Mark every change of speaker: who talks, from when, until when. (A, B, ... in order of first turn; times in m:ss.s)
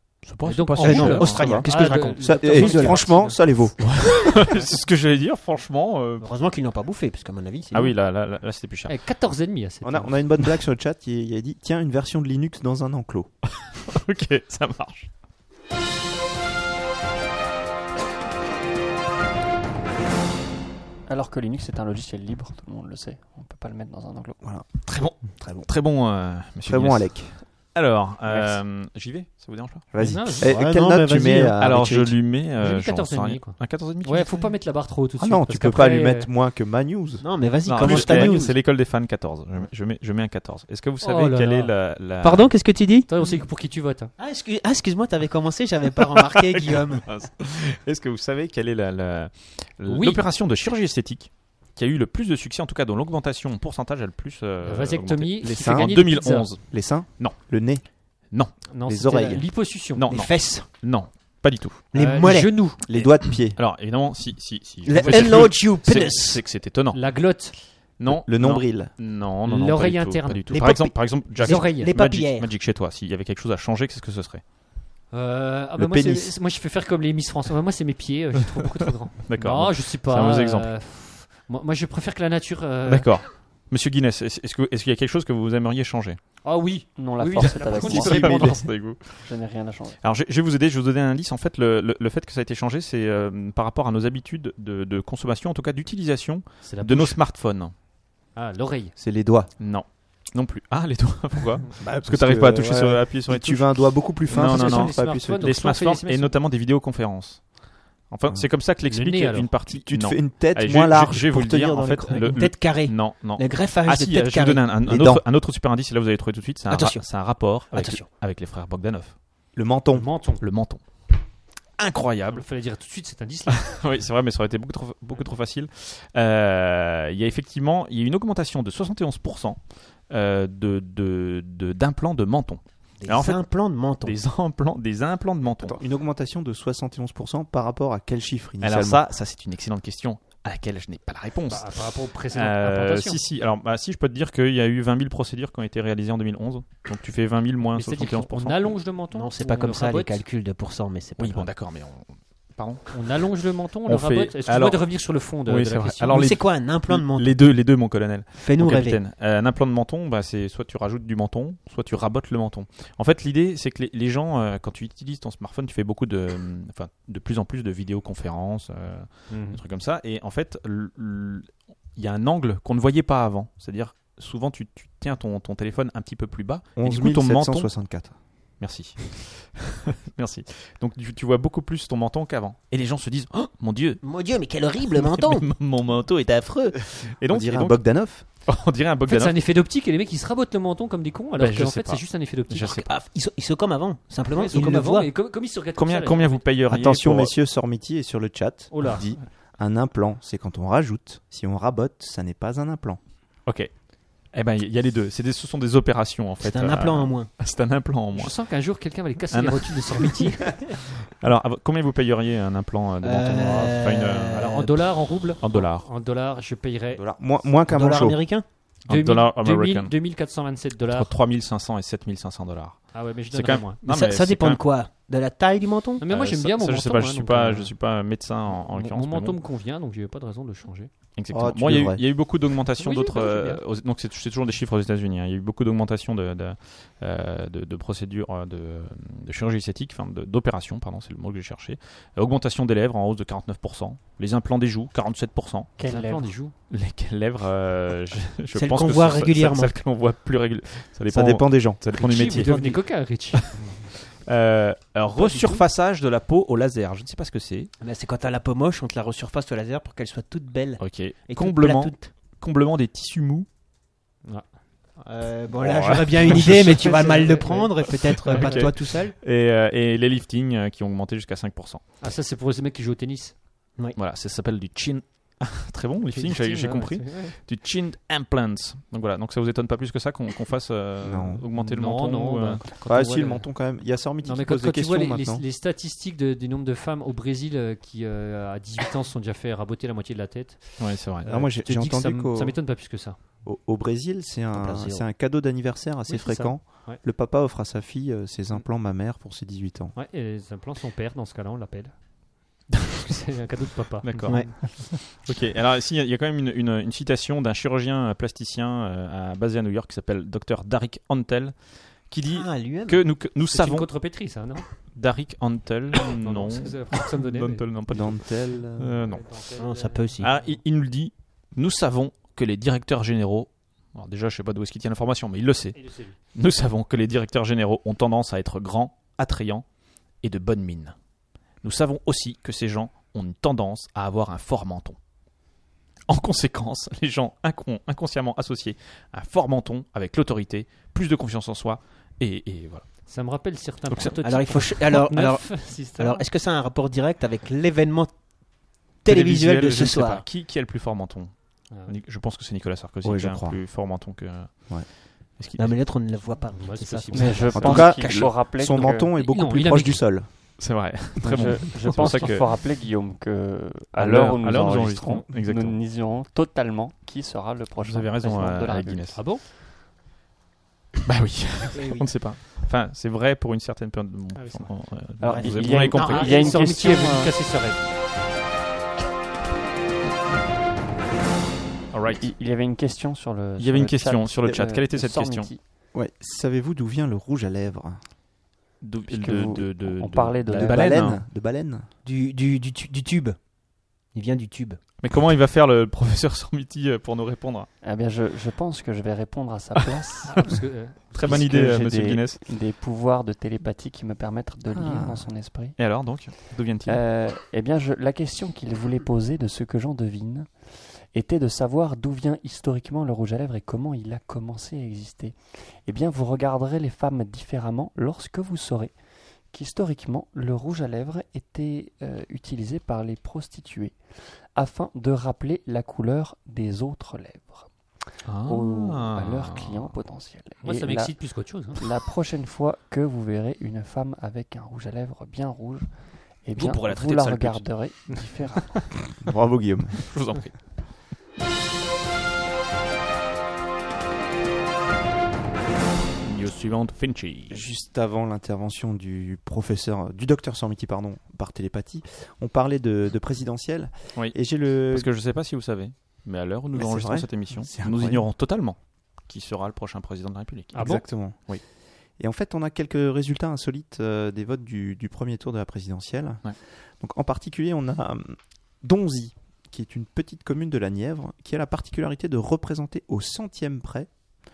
0:00.2-0:01.6 A
0:00.4-0:03.4 B
0:00.8-0:03.4 C
0:01.2-0:01.7 D
0:02.2-0:03.9 D
0:03.8-0:06.3 A
0:06.2-0:08.0 C
0:07.7-0:09.0 A
0:08.9-0:10.3 B
0:09.8-0:13.3 D
0:13.7-0:15.1 A
0:21.1-0:24.4 E
0:24.4-0:24.7 D
0:24.8-0:29.9 A
0:25.3-0:25.7 D
0:26.6-0:27.4 D
0:29.9-0:32.2 D
0:30.0-0:30.6 B
0:30.4-0:31.6 C
0:31.6-0:34.4 A
0:32.6-0:36.3 B
0:35.2-0:37.3 D
0:37.2-0:38.6 C
0:37.7-0:42.5 A
0:37.8-0:38.4 D
0:41.0-0:41.7 B
0:42.2-0:43.1 C
0:43.1-0:44.1 B
0:44.2-0:47.1 C
0:46.1-0:57.4 A
0:49.9-0:50.2 B
0:54.6-0:56.5 B
0:55.4-0:57.9 D
0:58.7-1:00.0 B
0:58.8-0:59.5 D
0:59.9-1:01.9 A
1:00.1-1:00.7 C
1:01.9-1:02.7 C
1:01.9-1:02.8 B
1:02.9-1:03.6 D
1:02.9-1:07.3 A
1:04.8-1:06.4 C
1:06.9-1:07.6 B
1:08.0-1:14.4 A
1:08.1-1:08.9 D
1:09.5-1:10.8 B
1:10.5-1:12.5 C
1:11.4-1:11.9 B
1:15.1-1:23.1 B
1:15.8-1:16.4 D
1:19.3-1:20.7 A
1:22.9-1:26.2 A
1:26.4-1:28.7 B
1:27.0-1:30.0 E
1:27.5-1:29.3 A
1:27.9-1:28.4 D
1:30.0-1:37.7 A
1:36.6-1:37.2 B
1:38.3-1:39.0 B
1:39.0-1:39.5 D
1:39.6-1:47.6 A
1:41.8-1:45.5 D
1:44.3-1:46.4 B
1:48.1-1:59.2 A
1:48.9-1:49.5 B
1:49.7-1:52.3 D
1:52.1-1:54.7 C
1:54.8-1:55.2 D
1:56.7-1:58.1 C
1:59.5-2:00.1 D
1:59.9-2:00.4 B
2:00.4-2:00.8 A
2:01.8-2:02.5 A
2:02.3-2:03.7 B
2:03.5-2:15.8 A
2:13.0-2:14.2 C
2:15.6-2:19.0 D
2:18.6-2:28.8 A
2:21.5-2:23.2 B
2:27.8-2:30.2 B
2:29.1-2:31.5 C
2:31.2-2:33.0 A
2:32.9-2:36.2 B
2:33.9-2:57.8 A
2:36.1-2:37.4 C
2:38.4-2:39.0 C
2:49.3-2:49.6 B
2:56.8-2:58.1 D
2:58.6-3:04.0 A
3:04.0-3:05.5 C
3:04.8-3:09.4 A
3:07.2-3:08.2 D
3:09.1-3:12.9 B
3:11.4-3:12.9 A
3:12.9-3:15.1 C
3:14.3-3:16.4 B
3:15.8-3:17.3 A
3:16.7-3:23.0 D
3:18.7-3:19.1 B
3:23.5-3:23.7 A
3:24.3-3:28.4 A
3:26.4-3:27.3 C
3:28.2-3:30.6 B
3:29.3-3:35.9 A
3:33.0-3:34.7 C
3:34.3-3:37.0 B
3:36.9-3:38.2 D
3:37.7-3:38.5 C
3:38.9-3:40.0 A
3:38.9-3:41.1 B
3:40.8-3:44.6 A
3:42.9-3:43.8 B
3:43.8-3:46.0 C
3:46.0-3:47.7 B
3:46.1-3:49.4 A
3:48.5-3:50.9 B
3:51.2-4:05.7 A
3:51.3-3:52.0 D
3:52.8-3:53.6 B
4:05.8-4:06.3 E
4:05.8-4:06.5 B
4:06.7-4:12.6 A
4:08.6-4:09.8 C
4:11.1-4:11.8 D
4:11.9-4:13.8 B
4:12.1-4:12.8 C
4:13.3-4:17.7 A
4:15.1-4:15.6 C
4:17.8-4:22.1 C
4:20.8-4:23.5 A
4:25.0-4:29.2 C
4:25.6-4:31.8 A
4:26.3-4:28.7 B
4:32.0-4:33.4 B
4:34.0-4:42.7 A
4:36.1-4:37.4 B
4:41.0-4:41.4 D
4:41.6-4:43.5 B
4:42.8-4:45.4 D
4:44.2-4:53.2 B
4:50.8-4:51.3 A
4:51.3-4:52.7 D
4:53.4-5:00.0 D
4:54.5-4:55.1 C
4:56.0-4:57.0 B
5:00.0-5:02.0 B
5:03.0-5:04.5 B
5:04.0-5:13.9 A
5:12.3-5:13.0 C
5:13.5-5:14.7 B
5:14.9-5:19.4 A
5:16.2-5:17.6 B
5:17.9-5:19.1 D
5:19.1-5:20.6 B
5:19.6-5:20.3 C
5:20.2-5:29.6 A
5:25.8-5:26.2 B
5:30.2-5:31.0 A
5:31.6-5:35.0 A
5:36.1-5:43.0 A
5:43.1-5:46.2 B
5:43.9-5:44.7 A
5:44.2-5:48.1 C
5:49.0-5:50.2 C
5:49.1-5:55.8 A
5:53.0-5:53.6 D
5:55.6-5:58.3 C
5:56.6-5:57.8 B
5:57.1-5:59.1 E
5:57.6-6:00.3 D
5:59.2-6:00.0 B
6:00.6-6:02.5 A
6:01.2-6:09.1 E
6:04.0-6:05.8 A
6:07.8-6:09.2 A
6:09.1-6:09.4 B
6:11.0-6:16.4 A
6:11.7-6:12.1 C
6:14.4-6:14.8 B
6:15.2-6:17.3 E
6:15.2-6:16.7 C
6:16.0-6:17.8 B
6:21.9-6:22.3 A
6:22.1-6:25.6 E
6:23.6-6:25.5 A
6:25.9-6:28.0 D
6:28.8-6:31.2 A
6:29.1-6:31.0 E
6:30.5-6:31.9 D
6:32.0-6:33.4 C
6:34.1-6:34.8 C
6:35.0-6:37.7 A
6:37.8-6:40.6 E
6:40.2-6:41.0 B
6:41.1-6:42.4 A
6:41.1-6:45.8 E
6:44.7-6:45.3 D
6:45.8-6:47.0 A
6:46.9-6:50.5 E
6:51.1-6:58.9 E
6:59.5-7:04.0 E
7:04.6-7:07.7 E
7:08.2-7:09.9 A
7:08.4-7:15.9 E
7:10.6-7:11.8 B
7:16.4-7:19.0 E
7:16.6-7:17.7 A
7:19.2-7:20.1 D
7:20.0-7:20.6 A
7:26.2-7:27.6 A
7:27.5-7:35.1 D
7:34.2-7:41.6 A
7:36.7-7:38.3 D
7:40.7-7:41.0 B
7:40.8-7:41.5 D
7:42.2-7:54.1 D